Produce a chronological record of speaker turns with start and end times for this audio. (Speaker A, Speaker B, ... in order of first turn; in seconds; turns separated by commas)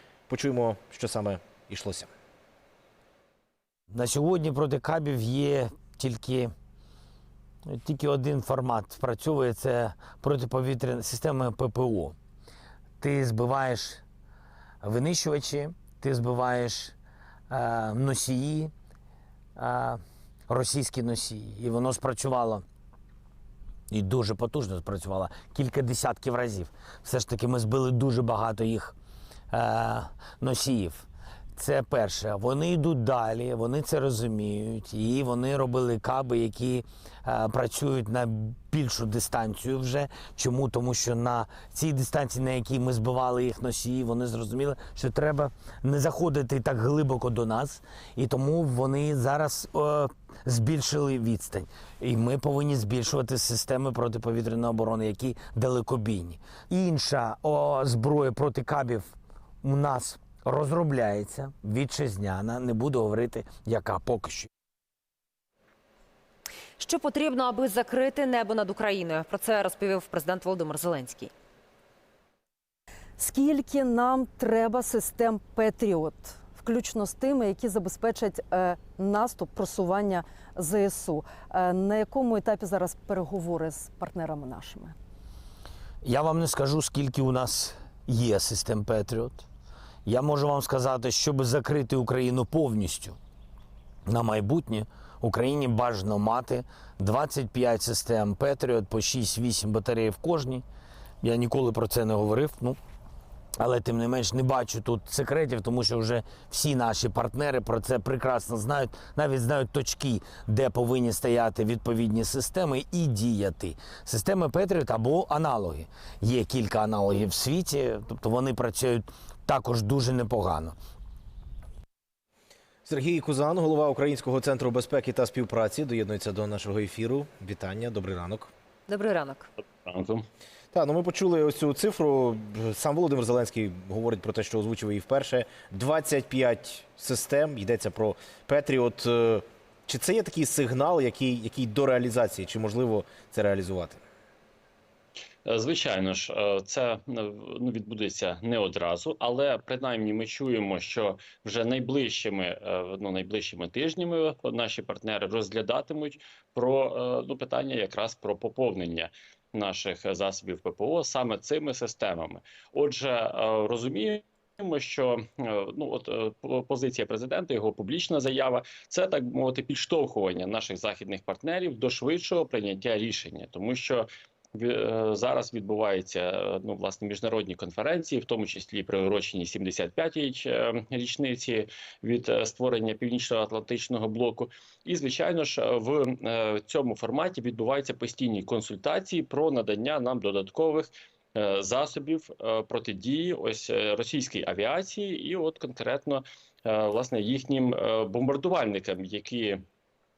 Speaker A: 0.3-2.1, Speaker B: 3.9-6.5, Speaker B: 7.7-12.2, Speaker B: 13.0-14.0, Speaker B: 14.8-16.9, Speaker B: 17.5-18.7, Speaker B: 19.6-22.6, Speaker B: 23.9-28.9, Speaker B: 29.5-64.5, Speaker C: 66.8-71.3, Speaker D: 73.2-84.9, Speaker B: 86.0-89.5, Speaker B: 90.0-93.2, Speaker B: 94.1-100.6, Speaker B: 101.2-102.8, Speaker B: 103.6-120.7, Speaker A: 122.8-128.5, Speaker C: 128.9-129.5, Speaker E: 129.8-130.2, Speaker A: 130.7-144.0, Speaker E: 145.5-199.6